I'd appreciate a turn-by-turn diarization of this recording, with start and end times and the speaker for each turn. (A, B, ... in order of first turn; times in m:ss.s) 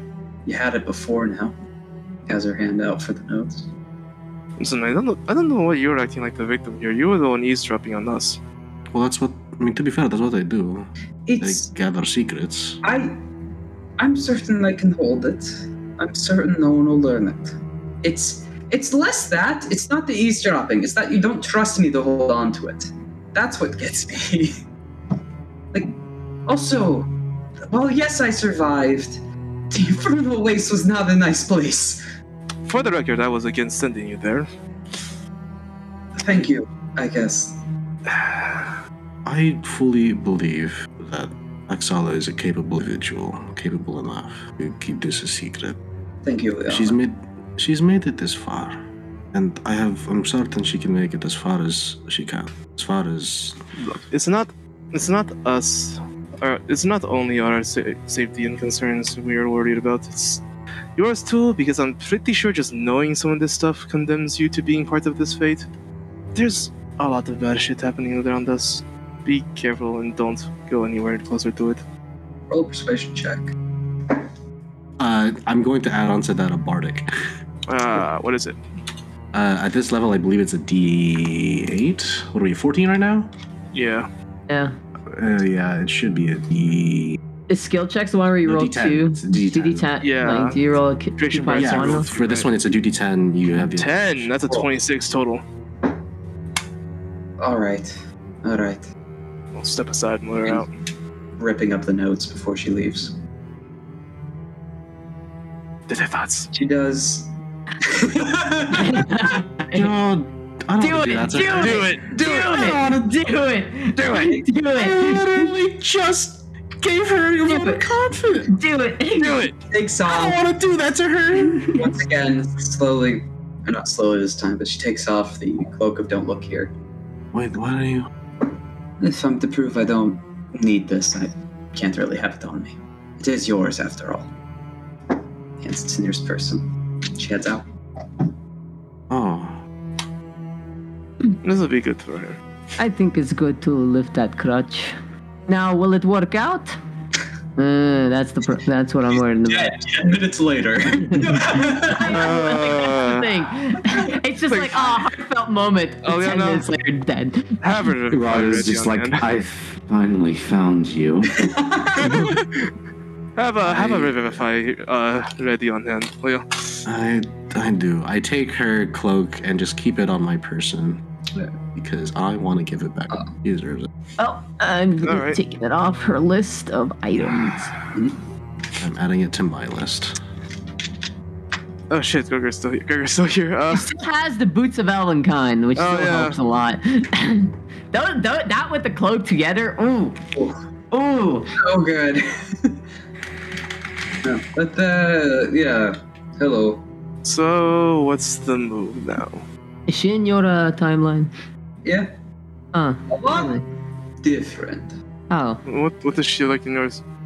0:00.4-0:01.6 A
0:02.3-0:03.7 A
0:04.6-0:08.4 B
0:08.9-0:10.9 C
0:11.3-0:11.7 A
0:11.4-0:12.8 C
0:12.8-0:13.2 A
0:14.0-0:24.6 A
0:25.7-0:27.1 A
0:27.7-0:32.0 A
0:32.7-0:34.5 B
0:36.2-0:37.6 A
0:38.1-0:38.8 B
0:39.2-0:45.8 C
0:46.2-0:47.0 A
0:46.7-0:48.8 C
0:49.3-0:53.6 C
0:53.8-1:00.4 B
1:01.0-1:05.7 B
1:06.4-1:11.8 B
1:12.5-1:13.5 A
1:15.0-1:17.1 C
1:17.7-1:18.6 B
1:19.3-1:23.3 C
1:23.7-1:24.1 B
1:24.5-1:24.8 D
1:25.1-1:27.2 C
1:27.5-1:32.1 D
1:28.4-1:29.9 C
1:30.0-1:30.6 B
1:31.2-1:32.5 B
1:31.6-1:34.3 C
1:33.6-1:35.4 B
1:37.4-1:38.9 A
1:39.5-1:40.7 B
1:41.4-1:43.2 A
1:45.9-1:46.5 B
1:46.5-1:47.3 A
1:47.8-1:49.1 A
1:48.7-1:49.9 D
1:49.7-1:53.0 C
1:50.8-1:55.5 D
1:51.5-1:52.4 B
1:54.0-1:54.4 B
1:54.7-1:58.5 C
1:57.4-1:59.5 D
1:59.2-1:59.6 B
1:59.7-2:00.4 A
2:00.0-2:01.8 C
2:01.3-2:02.0 D
2:01.8-2:06.7 A
2:07.3-2:08.1 C
2:09.0-2:14.3 A
2:15.6-2:17.6 A
2:19.1-2:19.6 C
2:21.4-2:22.4 B
2:22.8-2:25.0 D
2:25.5-2:26.8 D
2:27.6-2:29.8 D
2:29.2-2:32.2 A
2:31.2-2:37.6 D
2:32.0-2:33.3 B
2:34.5-2:35.1 B
2:36.0-2:36.7 B
2:37.6-2:39.2 B
2:38.1-2:41.4 E
2:41.5-2:42.2 A
2:42.0-2:42.7 B
2:43.4-2:46.8 B
2:43.7-2:44.2 C
2:46.8-2:51.0 C
2:51.8-2:53.9 C
2:54.2-2:57.7 D
2:55.0-2:55.4 B
2:58.8-3:00.2 C
3:01.9-3:03.9 B
3:03.7-3:10.2 D
3:05.8-3:06.4 B
3:10.4-3:10.6 A
3:10.9-3:11.5 D
3:11.6-3:12.8 A
3:14.2-3:16.9 A
3:17.2-3:19.5 B
3:19.9-3:21.3 D
3:21.8-3:22.1 A
3:22.7-3:23.6 D
3:23.1-3:23.7 A
3:24.2-3:24.9 A
3:25.3-3:25.6 D
3:25.7-3:27.0 B